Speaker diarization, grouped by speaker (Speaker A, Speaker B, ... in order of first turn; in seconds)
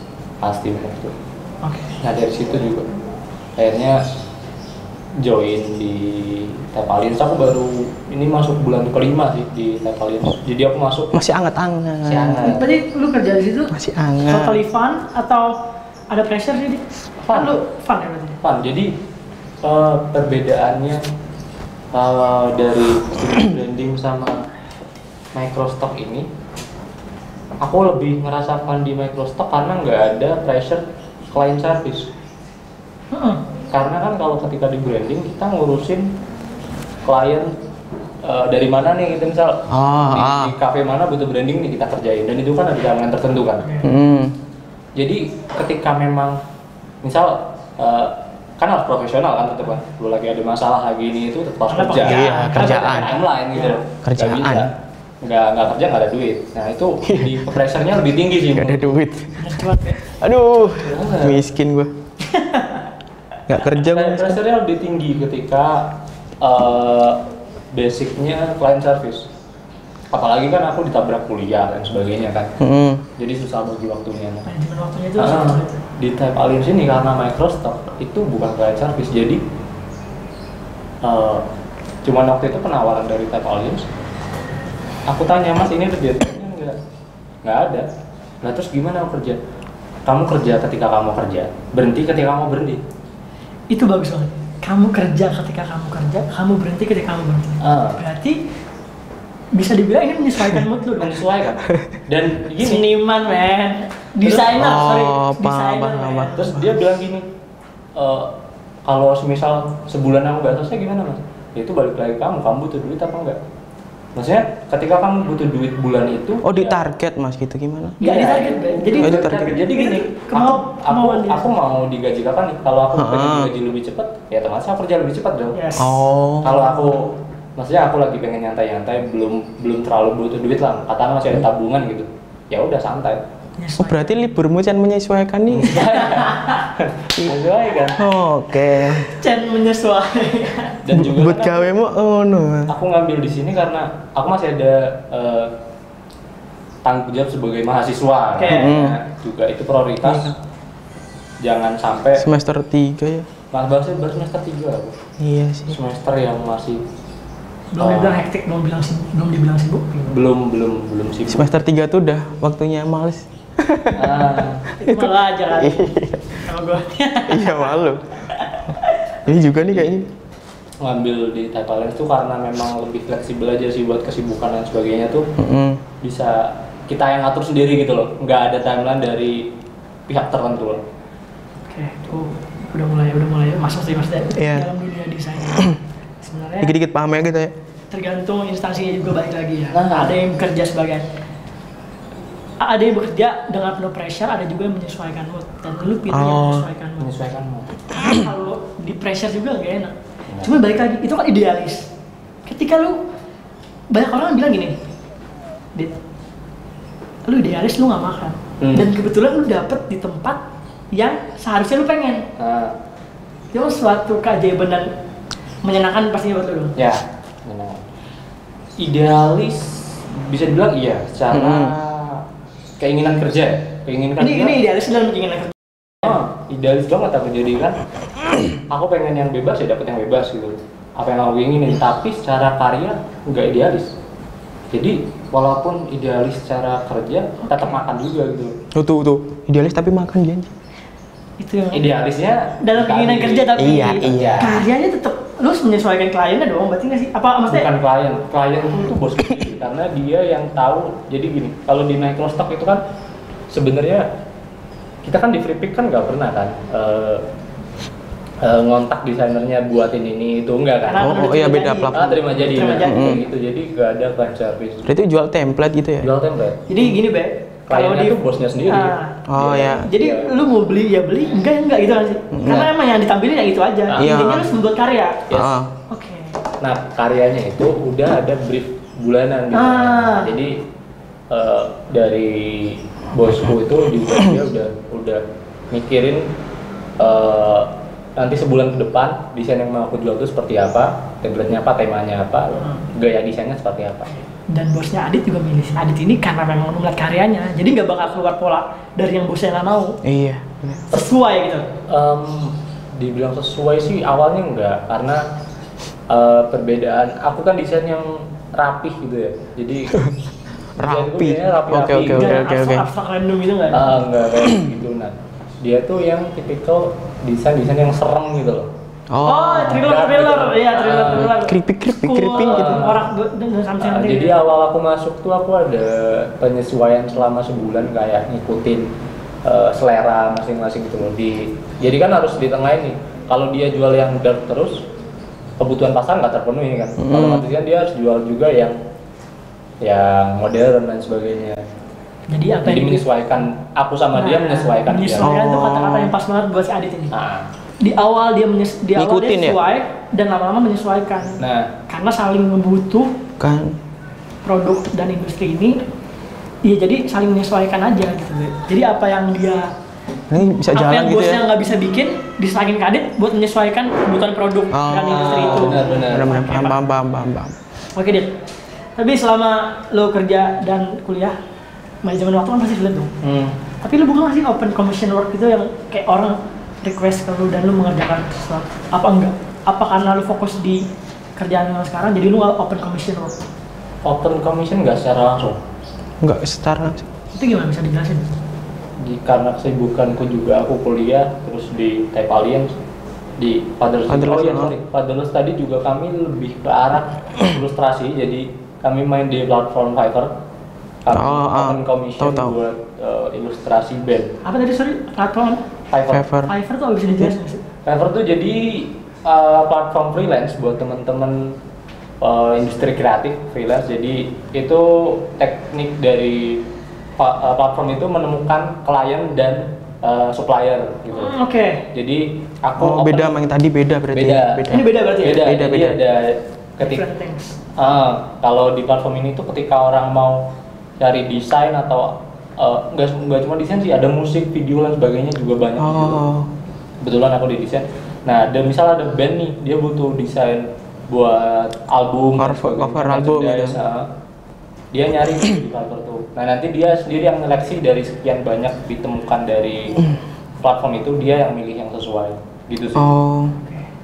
Speaker A: 0.4-1.1, 2.0-2.9, 3.6-4.0, 5.2-11.1, 12.1-12.7, 17.2-17.6, 18.4-18.9, 19.6-21.0, 21.9-24.4, 25.3-26.3, 27.6-32.1, 33.7-36.1, 37.0-37.5, 38.2-43.7, 45.0-46.4, 47.0-59.0, 60.6-61.4, 63.7-69.3, 70.1-72.5, 73.2-74.5, 75.2-79.4, 81.0-81.5, 82.0-83.9, 85.1-86.8, 87.4-87.9, 88.4-89.4, 90.1-92.8, 97.6-98.0, 101.0-102.9, 106.3-107.2, 107.9-108.3, 108.8-113.4, 114.1-116.8, 118.0-125.6, 126.4-133.2, 135.5-138.0, 140.8-141.7, 142.7-145.5, 146.8-150.3, 151.4-152.2, 153.5-155.0, 155.7-156.8, 157.8-158.2, 160.1-161.5, 163.9-164.7, 169.5-169.9, 170.8-175.3, 176.0-179.5, 180.1-180.8, 189.7-190.2, 197.0-197.7, 200.3-200.6, 208.6-208.9, 212.4-212.7, 216.8-217.8, 218.8-222.2, 222.8-224.6, 226.0-227.8, 228.6-233.9, 234.7-238.6, 241.7-244.6, 247.5-252.8, 253.5-254.1, 255.0-257.3, 258.4-261.2, 261.9-264.9, 266.0-266.7, 267.7-270.3, 273.9-274.1, 276.6-280.6, 281.3-286.3, 287.0-294.1, 301.9-305.2, 306.1-310.1, 310.8-312.4, 313.7-318.7, 319.7-321.3, 322.3-323.1, 323.8-328.9, 329.4-334.9, 335.6-338.8, 339.8-341.6, 342.6-345.4, 347.1-347.5, 351.4-351.7, 365.1-366.3, 373.2-373.6, 384.1-385.6, 389.0-392.7, 393.4-400.3, 401.0-404.3, 405.9-406.3, 407.9-411.6, 412.2-416.6, 417.2-421.4, 421.9-423.4, 424.1-427.0, 427.8-436.2, 437.0-444.1, 444.9-450.1, 450.6-453.1
Speaker B: 1.6-1.9, 12.4-13.7, 14.2-15.6, 16.1-18.4, 33.1-33.4, 43.6-43.9, 51.7-53.8, 59.4-60.0, 62.2-62.9, 74.5-75.8, 93.7-98.4, 99.5-101.2, 102.6-106.5, 118.0-121.5, 125.5-125.9, 133.6-134.2, 135.8-136.6, 139.0-140.8, 148.4-148.7, 157.7-160.1, 164.8-167.7, 168.3-169.2, 181.7-186.7, 187.9-191.1, 192.6-197.1, 197.9-201.9, 202.4-203.0, 203.9-204.8, 205.7-206.0, 207.2-210.4, 210.9-212.3, 213.5-214.9, 215.6-216.8, 224.2-226.2, 237.4-237.8, 241.4-241.8, 242.6-247.7, 260.9-263.2, 266.7-269.2, 269.8-275.3, 275.9-276.4, 279.5-280.3, 294.1-300.0, 300.9-301.7, 312.1-313.9, 319.2-324.4, 342.3-343.0, 344.1-347.1, 347.8-353.1, 354.4-355.8, 356.6-359.7, 360.7-366.8, 367.9-368.3, 368.9-371.4, 372.0-373.1, 373.8-380.8, 381.4-383.4, 387.3-388.2, 404.4-405.6, 406.4-407.6, 421.1-421.9, 424.7-425.4, 426.8-427.6, 453.6-453.9
Speaker C: 11.1-12.6, 13.7-14.6, 39.7-40.5, 43.8-44.4, 52.0-53.2, 54.0-54.7, 57.0-57.5, 58.5-61.9, 63.5-64.4, 72.6-73.1, 104.3-106.7, 116.4-118.0, 119.0-119.6, 122.9-123.5, 125.8-126.8, 133.8-135.9, 137.9-139.1, 140.9-142.8, 148.4-149.0, 150.1-150.3, 152.2-153.3, 155.2-155.8, 161.3-164.3, 164.8-166.4, 167.3-168.1, 169.2-170.1, 175.4-175.8, 184.4-184.7, 186.6-187.5, 196.1-196.7, 221.3-221.7, 238.7-240.5, 243.6-244.5, 261.0-262.2, 262.8-263.2, 264.9-266.1, 269.3-269.9, 272.3-272.6, 273.9-274.5, 275.3-275.7, 300.0-300.9, 310.8-312.9, 319.1-319.8, 321.2-322.9, 337.0-337.5, 345.2-346.1, 348.9-349.6, 353.4-353.8, 360.3-361.4, 364.7-367.6, 386.2-387.1, 394.1-394.7, 401.1-402.6, 406.1-406.5, 422.8-426.0, 435.8-436.5, 442.4-443.8, 452.9-453.6